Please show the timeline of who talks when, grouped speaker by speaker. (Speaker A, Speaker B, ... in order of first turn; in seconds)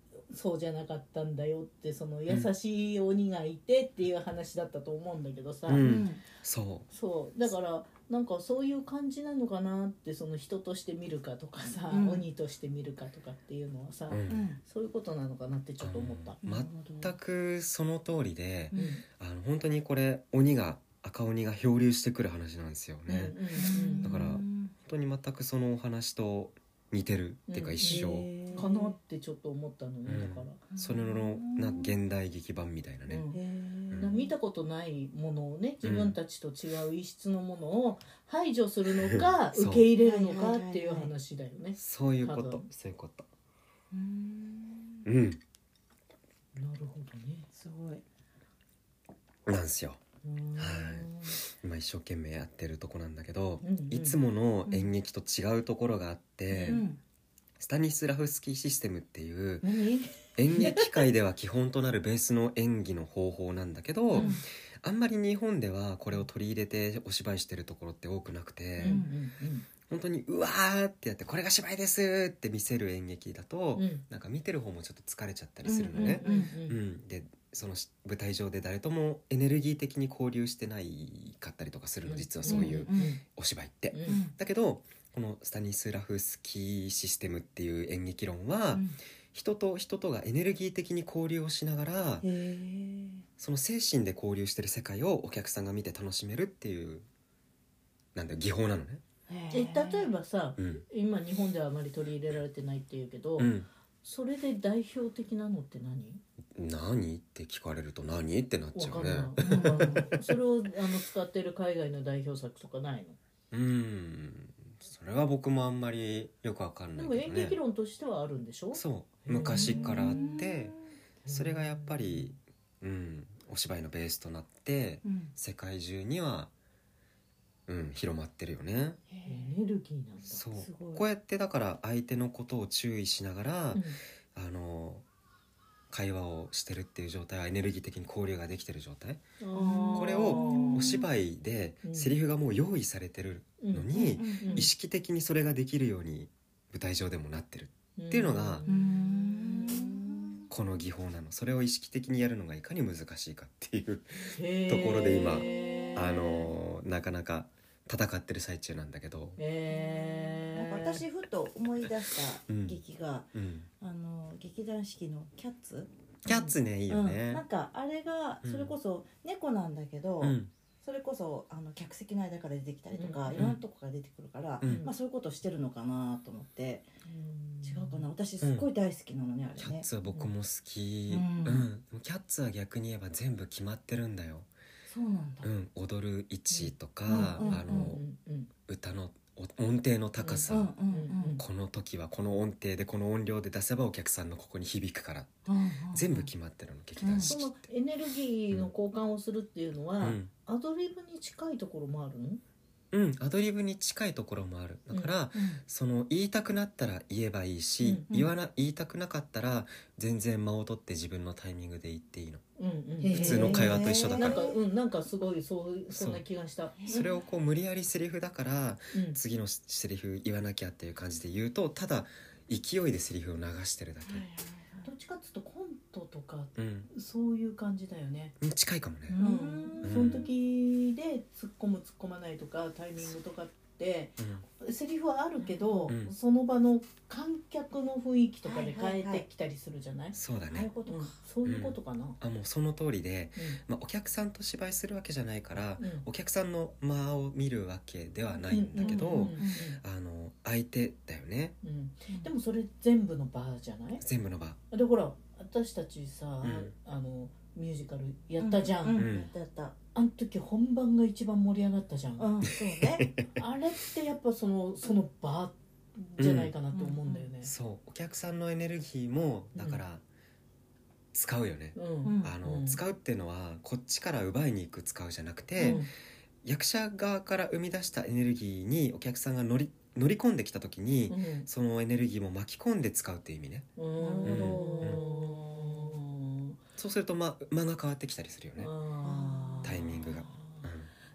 Speaker A: 0.3-5.9, 6.9-16.4, 18.7-19.0, 23.1-24.2, 27.5-30.6, 33.1-33.4, 34.0-42.7, 46.6-47.5, 50.2-51.4, 53.6-54.2, 56.5-56.8, 59.6-60.9, 64.1-64.4, 68.8-69.7, 73.8-74.0, 76.0-76.8, 82.0-83.2, 83.9-84.2, 99.5-103.5, 104.0-106.2, 108.8-113.2, 117.0-120.5, 121.2-122.3, 129.2-130.4, 133.7-134.0, 139.4-141.0, 141.8-142.2, 143.6-144.7, 148.0-150.4, 154.3-156.5, 159.4-161.0, 166.3-166.5, 172.9-173.6, 174.6-174.9, 177.1-178.1, 186.5-188.5, 190.2-191.4, 197.2-202.4, 207.8-208.1, 212.6-217.2, 218.9-219.2, 224.8-228.3, 229.2-240.2, 240.9-242.2, 245.8-246.1, 248.5-249.8, 251.6-254.0, 254.7-259.1, 259.9-262.3, 263.3-267.5, 269.6-269.8, 271.8-272.8, 275.6-275.9, 281.1-281.5, 283.8-286.6, 288.6-290.6
Speaker B: 5.7-6.9, 14.1-14.4, 15.8-28.3, 30.1-33.2, 33.9-34.2, 35.8-36.2, 39.0-39.9, 41.8-43.3, 45.1-45.4, 49.5-50.0, 50.6-56.9, 57.6-59.7, 60.4-69.0, 69.9-92.3, 93.4-97.1, 98.2-99.0, 100.6-100.8, 103.4-103.7, 106.6-110.2, 113.5-117.6, 118.7-120.7, 121.3-126.5, 127.7-129.0, 130.3-133.8, 134.3-135.1, 135.9-139.2, 139.9-148.6, 150.5-159.4, 162.5-162.8, 163.3-163.7, 166.2-167.4, 168.4-168.7, 170.2-170.5, 173.3-173.6, 174.6-174.9, 178.4-178.7, 179.6-184.5, 185.4-188.0, 188.7-190.8, 191.4-197.6, 200.0-200.3, 202.9-212.4, 213.1-214.5, 215.9-216.2, 216.9-224.3, 226.6-226.9, 228.4-229.2, 229.8-230.3, 234.2-234.4, 240.1-240.7, 241.4-251.6, 254.0-254.6, 256.4-256.7, 258.9-259.3, 262.6-263.3, 266.2-266.5, 267.4-270.0, 271.1-275.9, 276.4-283.7, 284.2-285.0, 286.8-288.7, 289.6-290.9
Speaker C: 5.8-6.2, 11.9-12.2, 14.3-14.6, 16.4-17.1, 23.6-24.7, 27.8-28.9, 30.7-32.0, 33.3-34.3, 40.0-41.1, 43.9-45.1, 47.5-48.0, 54.7-54.9, 56.6-57.0, 59.6-60.0, 64.1-64.4, 68.8-69.1, 75.7-76.5, 82.5-83.1, 84.1-84.3, 92.2-93.2, 99.3-100.1, 109.4-110.1, 119.5-120.8, 125.0-125.3, 129.1-129.5, 130.6-131.1, 139.5-141.1, 143.9-144.7, 148.7-150.4, 155.3-156.0, 159.7-165.9, 166.9-176.9, 177.6-179.9, 181.1-181.7, 184.9-185.5, 187.1-188.0, 190.5-191.4, 195.5-196.2, 197.0-197.3, 205.3-205.6, 213.0-214.6, 216.8-217.1, 224.0-224.9, 229.1-230.3, 235.4-235.9, 238.4-239.2, 240.5-241.2, 248.8-249.6, 258.4-259.8, 262.2-263.1, 266.7-267.3, 272.0-272.4, 284.0-285.9, 289.0-290.1